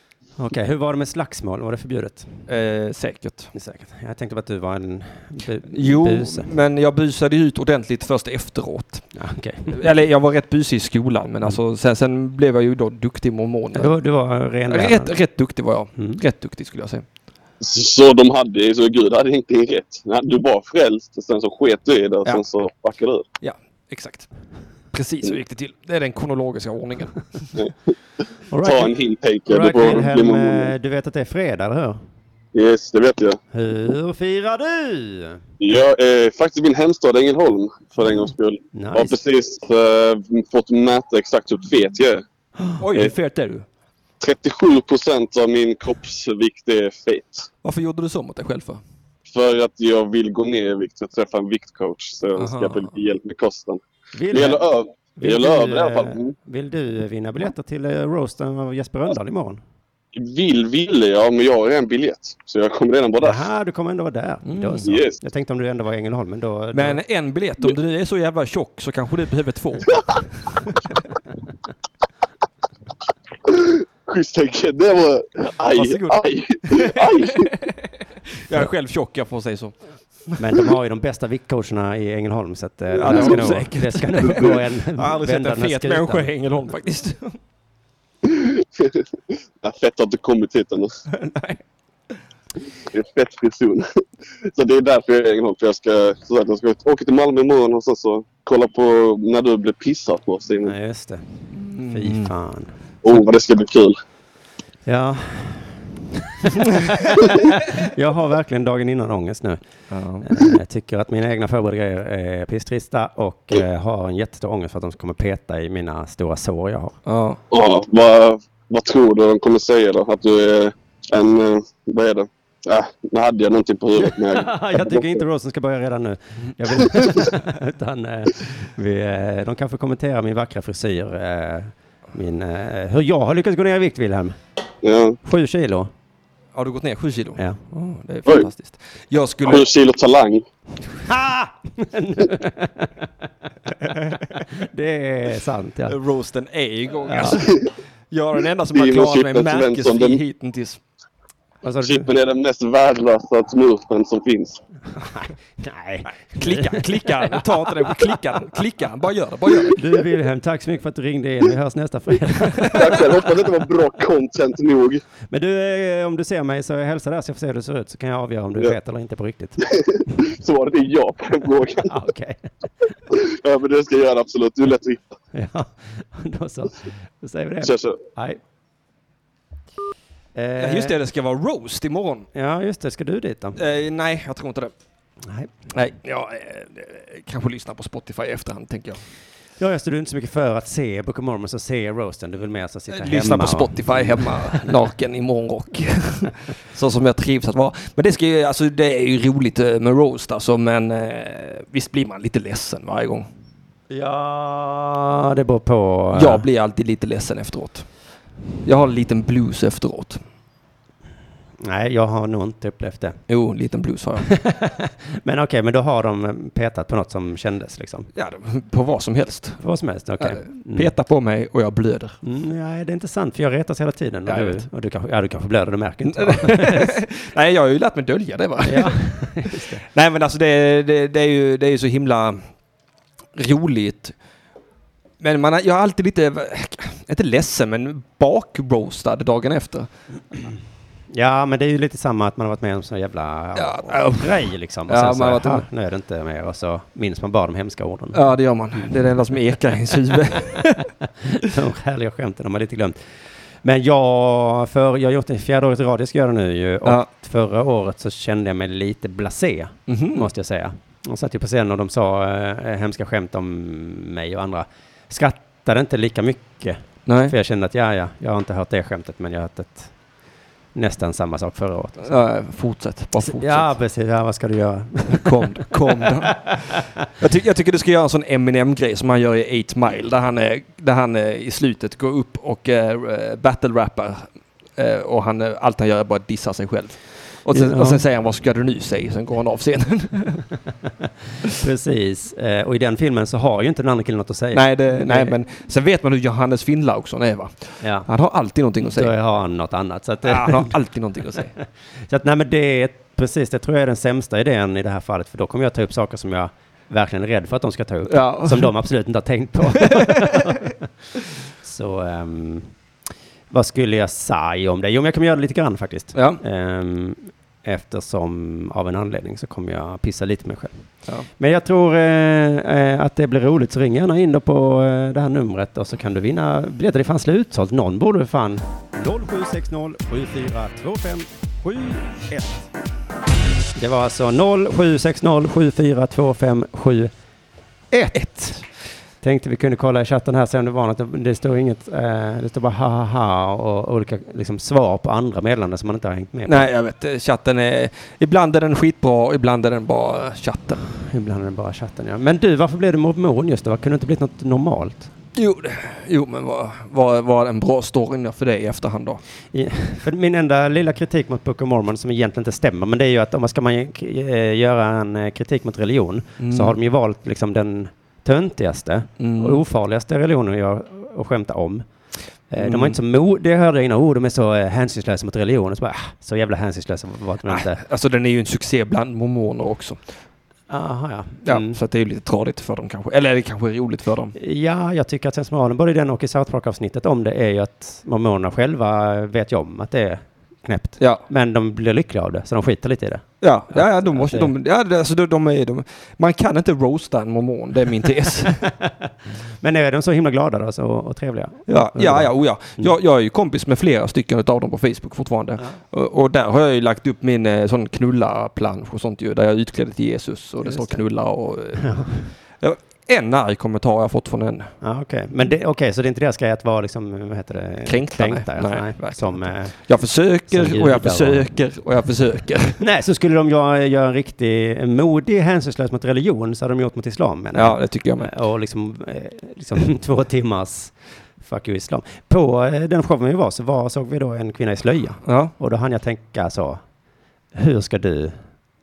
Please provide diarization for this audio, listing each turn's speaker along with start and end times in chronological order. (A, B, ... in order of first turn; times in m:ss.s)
0:00.4-0:02.4 A
0:02.5-0:03.5 B
0:03.5-0:06.5 A
0:05.7-0:09.0 B
0:09.2-0:09.8 A
0:09.7-0:13.9 B
0:13.8-0:15.2 A
0:14.7-0:17.0 B
0:17.6-0:23.2 C
0:23.4-0:24.3 B
0:24.9-0:27.6 B
0:28.5-0:28.9 A
0:28.6-0:30.7 C
0:29.5-0:32.0 A
0:32.5-0:33.4 C
0:33.5-0:35.4 A
0:35.6-0:42.2 C
0:38.7-0:39.2 A
0:42.8-0:43.6 B
0:44.2-0:47.5 C
0:47.6-0:48.8 B
0:49.3-0:53.8 C
0:52.4-0:52.9 B
0:54.1-0:54.6 A
0:54.3-0:56.3 C
0:55.2-0:59.6 A
1:00.1-1:03.4 C
1:03.2-1:07.0 A
1:04.4-1:04.9 B
1:04.8-1:05.2 C
1:06.7-1:10.8 B
1:13.4-1:17.5 C
1:15.6-1:17.9 B
1:18.4-1:19.8 B
1:20.4-1:26.3 A
1:23.0-1:27.4 B
1:23.0-1:23.5 C
1:24.2-1:24.6 C
1:28.2-1:29.1 C
1:29.6-1:31.0 C
1:31.1-1:31.6 B
1:32.9-1:40.7 C
1:40.6-1:42.7 A
1:41.6-1:42.3 B
1:43.0-1:44.0 C
1:44.9-1:49.6 A
1:49.9-1:50.3 B
1:50.2-1:57.0 A
1:57.1-1:57.4 B
1:57.5-2:05.2 C
2:04.0-2:14.4 A
2:14.8-2:15.2 C
2:15.2-2:15.9 A
2:16.5-2:19.7 B
2:19.4-2:20.4 C
2:21.0-2:23.1 A
2:23.9-2:26.0 A
2:25.9-2:30.8 B
2:27.1-2:27.4 A
2:27.3-2:27.7 C
2:28.7-2:30.2 C
2:31.6-2:32.1 A
2:31.8-2:34.6 C
2:35.0-2:37.9 A
2:36.4-2:39.8 B
2:39.7-2:43.2 A
2:42.6-2:42.9 B
2:42.6-2:45.0 C
2:45.3-2:49.6 A
2:49.6-2:51.9 C
2:51.8-2:52.5 A
2:53.1-2:55.0 C
2:55.3-2:58.4 A
2:57.6-2:58.0 C
3:00.4-3:01.0 A
3:00.6-3:02.3 B
3:02.3-3:03.6 A
3:03.6-3:04.7 B
3:05.2-3:05.5 A
3:05.7-3:09.0 B
3:09.6-3:14.7 A
3:12.9-3:23.3 B
3:23.9-3:26.4 A
3:26.2-3:27.9 B
3:28.6-3:30.2 B
3:31.6-3:33.2 A
3:33.3-3:34.3 B
3:34.3-3:38.1 A
3:38.2-3:39.6 B
3:39.6-3:40.9 A
3:40.2-3:42.2 B
3:42.2-3:47.0 A
3:44.3-3:44.6 B
3:46.1-3:52.4 B
3:48.7-3:49.8 A
3:53.4-3:54.1 B
3:55.2-3:59.9 B
4:01.1-4:08.2 A
4:03.6-4:05.6 B
4:08.1-4:10.9 B
4:11.0-4:13.0 A
4:13.6-4:29.9 A
4:19.9-4:20.3 B
4:27.1-4:27.3 B
4:30.8-4:32.2 A
4:32.1-4:33.7 B
4:33.2-4:36.8 A
4:35.1-4:50.5 B
4:47.5-4:48.0 A
4:51.0-4:55.4 A
4:54.5-4:59.1 B
4:57.8-4:58.1 A
4:58.8-5:00.7 A
5:00.2-5:01.5 B
5:02.0-5:10.8 A
5:08.1-5:08.7 B
5:09.8-5:10.5 B
5:11.6-5:12.7 A
5:13.5-5:20.8 A
5:16.2-5:16.4 B
5:21.4-5:32.7 A
5:33.8-5:37.1 A
5:37.9-5:38.6 A
5:39.2-5:46.7 A
5:46.5-5:50.8 B
5:51.0-5:55.1 A
5:55.4-5:59.2 B
5:59.5-6:11.8 A
6:06.4-6:06.8 B
6:09.2-6:09.6 B
6:12.5-6:17.8 A
6:12.6-6:13.0 B
6:17.5-6:20.0 B
6:20.7-6:21.8 A
6:21.5-6:24.4 B
6:24.4-6:34.5 A
6:31.0-6:31.2 B
6:33.4-6:38.7 B
6:38.6-6:39.0 A
6:39.6-6:42.9 A
6:41.7-6:54.7 B
6:50.6-6:51.0 A
6:51.8-6:52.2 A
6:54.8-6:59.7 A
6:57.9-7:02.8 B
7:00.5-7:01.5 A
7:02.8-7:16.8 A
7:07.6-7:08.3 B
7:15.3-7:15.5 B
7:17.5-7:18.4 A